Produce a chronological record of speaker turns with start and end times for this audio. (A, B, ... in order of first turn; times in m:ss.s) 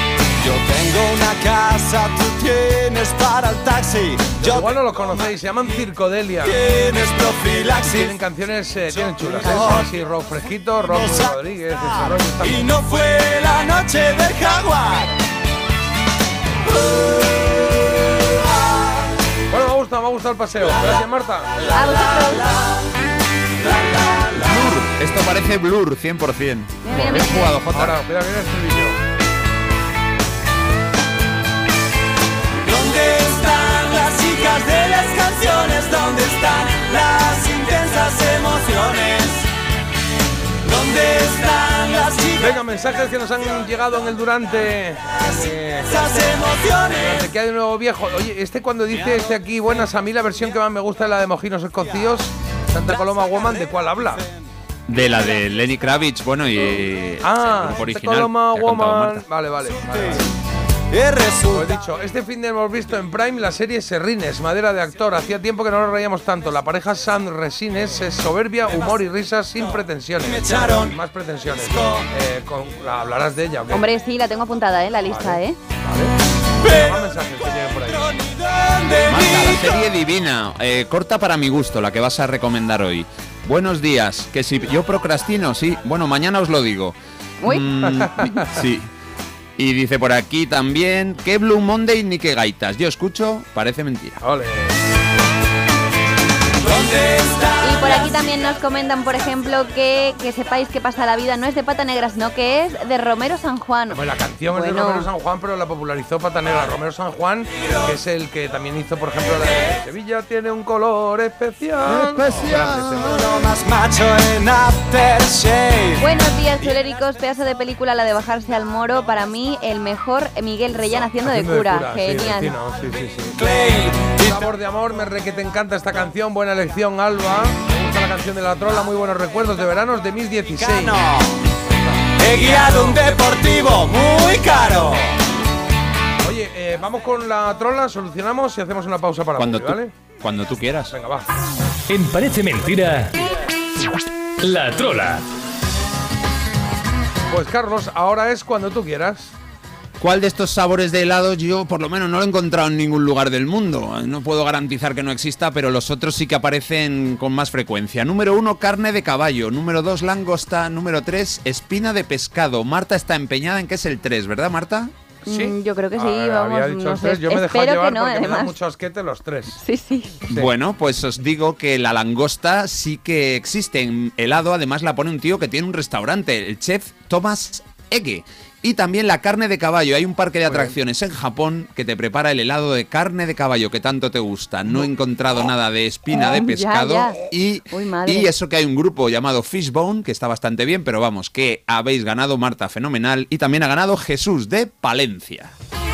0:00.4-0:05.2 A
0:04.4-0:06.6 B
0:06.4-0:08.1 A
0:07.8-0:12.7 B
0:09.0-0:10.0 A
0:10.9-0:15.2 A
0:19.5-0:21.6 B
0:21.7-0:22.6 C
0:24.1-0:24.4 A
0:24.4-0:28.0 D
0:26.8-0:27.5 C
0:26.9-0:29.0 B
0:32.6-0:39.5 A
0:40.6-0:42.5 A
0:42.4-0:54.2 B
0:45.2-0:47.2 A
0:54.9-0:59.2 D
0:57.2-1:00.3 B
0:59.7-1:00.2 A
1:00.9-1:01.7 A
1:01.5-1:13.8 B
1:10.2-1:10.9 A
1:11.6-1:12.0 A
1:13.7-1:15.6 C
1:15.0-1:18.2 B
1:18.1-1:19.6 A
1:19.0-1:28.9 D
1:27.4-1:27.6 C
1:27.8-1:28.5 B
1:29.6-1:34.2 D
1:34.2-1:34.8 B
1:36.6-1:38.1 A
1:37.6-1:45.1 C
1:43.9-1:53.2 B
1:51.8-1:53.3 D
1:52.5-1:56.0 A
1:56.0-2:02.6 C
2:00.9-2:03.5 B
2:03.4-2:04.5 A
2:04.2-2:11.0 B
2:10.6-2:11.4 A
2:11.7-2:13.2 B
2:12.2-2:15.1 A
2:16.2-2:19.9 B
2:19.4-2:21.0 D
2:20.9-2:21.3 B
2:21.9-2:23.1 E
2:24.4-2:25.2 E
2:27.3-2:29.3 B
2:30.0-2:44.9 D
2:45.2-2:48.6 C
2:45.2-2:49.6 B
2:49.6-2:50.2 C
2:50.3-3:15.5 D
3:00.5-3:00.7 B
3:06.1-3:08.3 C